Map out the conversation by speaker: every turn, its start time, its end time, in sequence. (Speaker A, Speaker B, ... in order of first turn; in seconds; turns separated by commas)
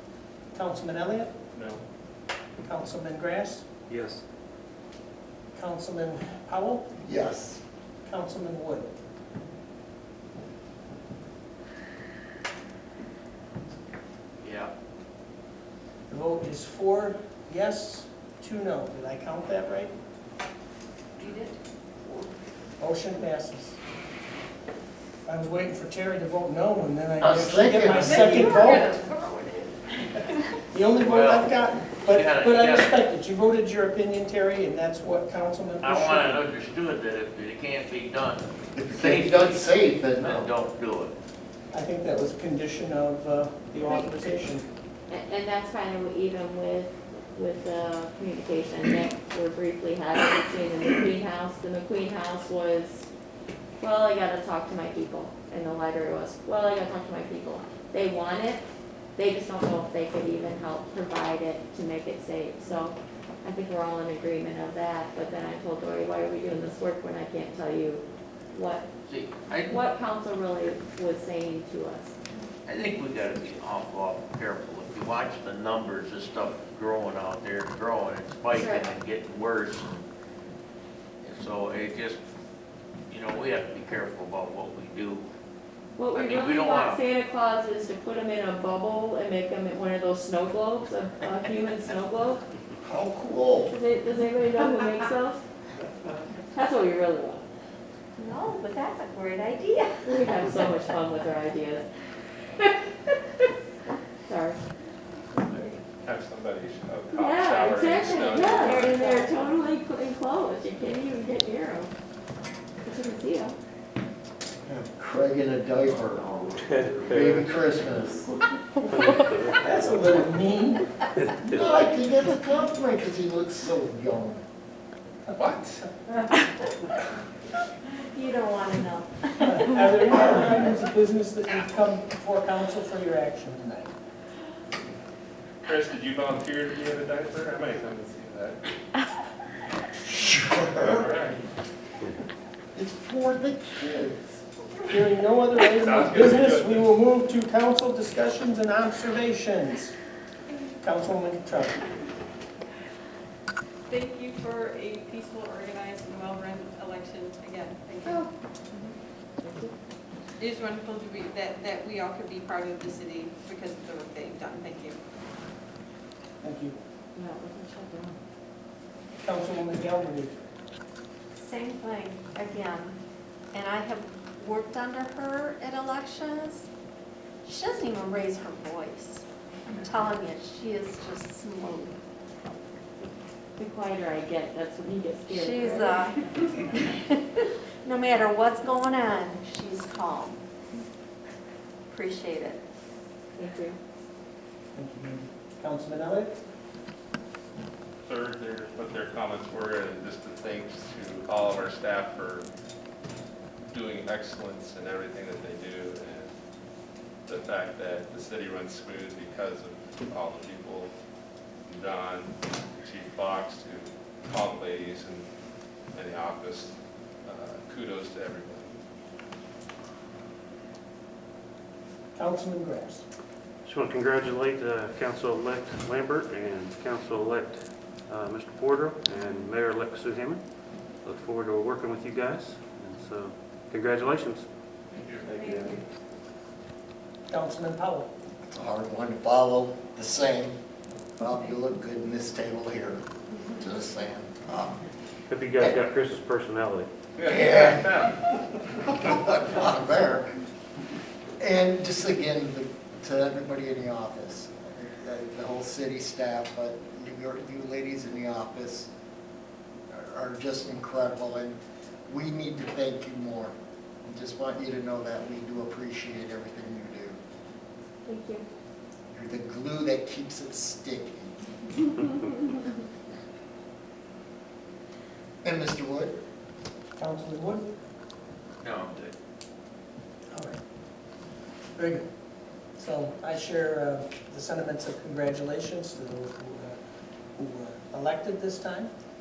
Speaker A: 0.5-1.3, Speaker B: 1.5-1.8, Speaker A: 2.6-3.6, Speaker C: 3.9-4.2, Speaker A: 5.5-6.9, Speaker D: 7.0-7.6, Speaker A: 8.1-8.9, Speaker E: 14.4-14.7, Speaker A: 16.1-19.9, Speaker A: 22.8-23.8, Speaker A: 25.2-28.9, Speaker D: 27.2-28.4, Speaker F: 28.2-29.0, Speaker G: 28.6-29.4, Speaker A: 30.7-36.4, Speaker E: 31.0-33.0, Speaker E: 35.8-41.1, Speaker D: 38.7-40.5, Speaker A: 41.7-44.6, Speaker H: 43.8-44.3, Speaker H: 45.1-53.1, Speaker H: 53.8-58.6, Speaker H: 59.1-68.9, Speaker E: 69.0-69.8, Speaker H: 69.7-72.1, Speaker E: 72.7-80.0, Speaker H: 78.5-78.9, Speaker E: 81.2-82.2, Speaker E: 83.1-85.2, Speaker H: 86.0-92.4, Speaker E: 86.1-87.0, Speaker D: 92.8-93.7, Speaker H: 93.7-95.4, Speaker H: 96.5-97.4, Speaker G: 98.2-100.0, Speaker H: 100.0-101.9, Speaker H: 104.2-104.6, Speaker B: 106.0-109.0, Speaker H: 107.1-111.9, Speaker G: 108.5-109.3, Speaker H: 112.8-113.5, Speaker D: 114.6-118.2, Speaker C: 116.6-117.4, Speaker C: 118.9-120.0, Speaker A: 119.6-120.8, Speaker D: 121.4-124.4, Speaker B: 125.3-125.8, Speaker G: 127.9-129.8, Speaker A: 129.4-133.9, Speaker B: 135.7-138.7, Speaker D: 140.1-141.1, Speaker B: 140.7-141.4, Speaker D: 142.7-144.4, Speaker A: 144.9-149.9, Speaker B: 145.6-146.9, Speaker A: 150.8-151.8, Speaker F: 153.9-158.2, Speaker H: 159.4-159.7, Speaker F: 160.4-165.0, Speaker A: 166.4-166.8, Speaker H: 167.1-168.2, Speaker A: 169.2-170.3, Speaker G: 171.4-173.0, Speaker G: 173.5-176.7, Speaker G: 177.4-181.9, Speaker H: 183.6-186.1, Speaker G: 185.3-190.4, Speaker G: 191.9-192.6, Speaker H: 193.3-193.8, Speaker A: 194.7-196.3, Speaker B: 198.0-202.5, Speaker B: 203.7-206.3, Speaker B: 207.2-210.9, Speaker B: 211.7-215.3, Speaker B: 215.9-218.7, Speaker A: 222.1-223.0, Speaker C: 223.6-230.4, Speaker C: 231.0-234.5, Speaker B: 235.0-235.8, Speaker A: 237.3-238.1, Speaker D: 238.4-240.6, Speaker D: 241.2-244.8, Speaker C: 245.3-246.9, Speaker B: 247.2-248.2, Speaker D: 247.2-248.1, Speaker D: 248.9-250.4, Speaker D: 251.4-258.9, Speaker D: 259.9-263.5, Speaker D: 264.0-267.2, Speaker H: 268.1-268.4, Speaker D: 269.1-271.3, Speaker D: 275.4-276.2, Speaker A: 277.0-277.7, Speaker E: 278.6-279.1, Speaker A: 280.3-280.6, Speaker A: 281.8-282.1, Speaker A: 282.8-286.8, Speaker A: 287.4-288.9